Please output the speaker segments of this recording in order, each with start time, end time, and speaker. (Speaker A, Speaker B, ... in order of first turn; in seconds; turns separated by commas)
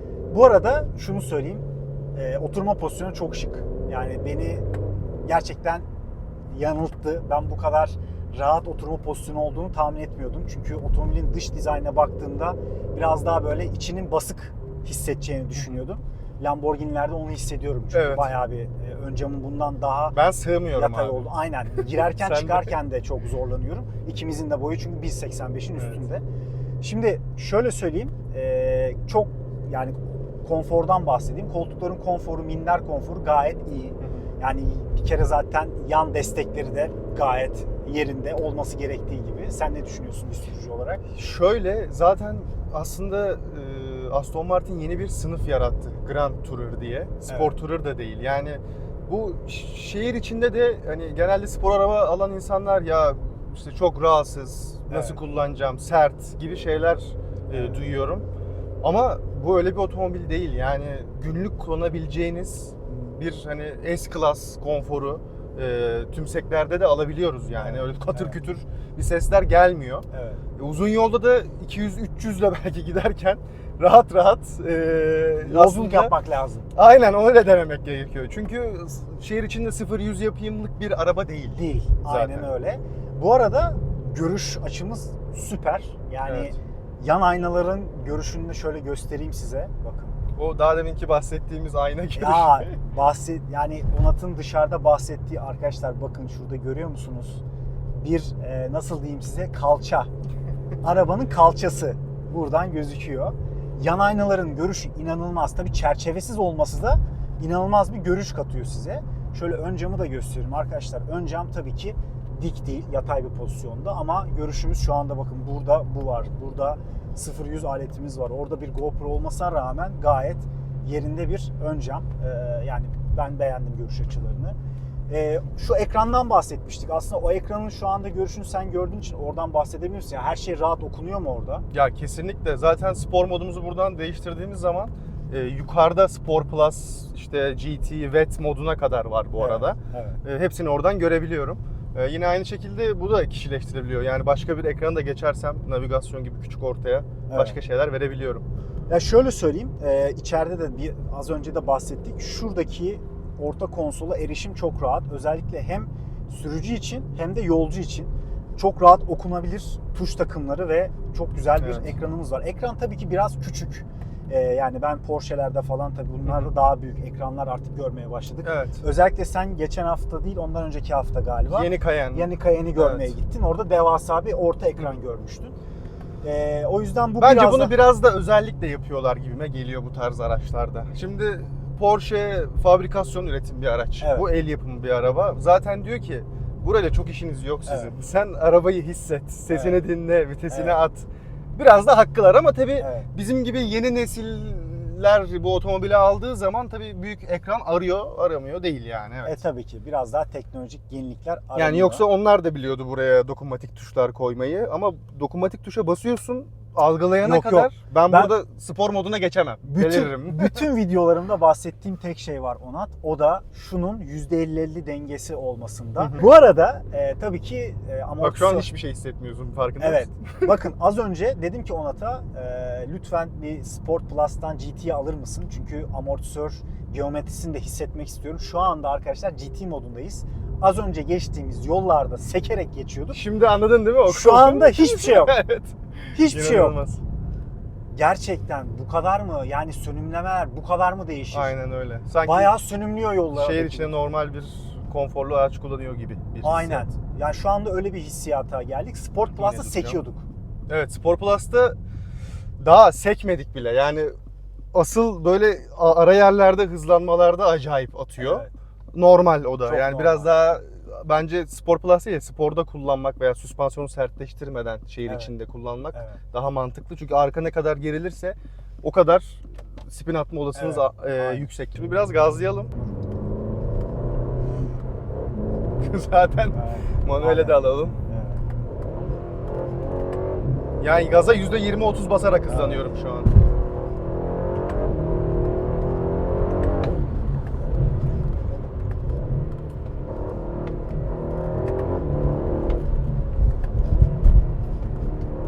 Speaker A: 0.3-4.7, Speaker A: 5.2-5.8, Speaker A: 6.5-20.2, Speaker B: 17.9-18.3, Speaker B: 20.1-22.7, Speaker A: 20.7-26.2, Speaker A: 26.8-41.0, Speaker B: 41.1-58.3, Speaker A: 47.3-47.6, Speaker A: 54.9-55.2, Speaker A: 57.5-57.8, Speaker B: 58.8-70.0, Speaker A: 67.6-68.4, Speaker A: 70.1-70.4, Speaker B: 70.6-76.1, Speaker A: 75.4-76.7, Speaker B: 76.7-82.5, Speaker A: 81.5-90.2, Speaker B: 86.2-86.5, Speaker B: 90.3-92.7, Speaker A: 92.2-100.1, Speaker A: 100.8-124.5, Speaker A: 125.1-131.6, Speaker B: 131.7-148.4, Speaker A: 139.4-140.2, Speaker A: 147.3-147.6, Speaker A: 148.9-175.5, Speaker B: 161.6-161.9, Speaker B: 168.4-168.8, Speaker B: 171.5-173.1, Speaker A: 176.2-177.7, Speaker B: 177.2-199.4, Speaker A: 184.0-184.3, Speaker A: 187.7-187.9, Speaker A: 189.5-189.8, Speaker A: 190.5-190.8, Speaker A: 192.8-193.1, Speaker A: 199.2-202.0, Speaker B: 201.5-210.7, Speaker A: 207.2-208.3, Speaker A: 209.6-218.7, Speaker B: 216.0-216.3, Speaker B: 218.2-220.5, Speaker A: 219.8-233.2, Speaker B: 233.1-237.0, Speaker A: 234.1-235.4, Speaker A: 236.1-236.8, Speaker A: 237.9-241.5, Speaker B: 241.3-242.5, Speaker A: 242.2-243.9, Speaker B: 243.3-246.9, Speaker A: 246.4-250.3, Speaker B: 249.3-250.0, Speaker B: 250.7-251.8, Speaker B: 252.6-254.1, Speaker B: 254.7-272.7, Speaker A: 258.2-258.5, Speaker A: 259.6-260.3, Speaker A: 265.1-265.3, Speaker A: 265.9-266.2, Speaker A: 270.5-271.5, Speaker B: 275.8-278.0, Speaker A: 276.5-278.4, Speaker B: 280.8-283.3, Speaker A: 282.5-282.9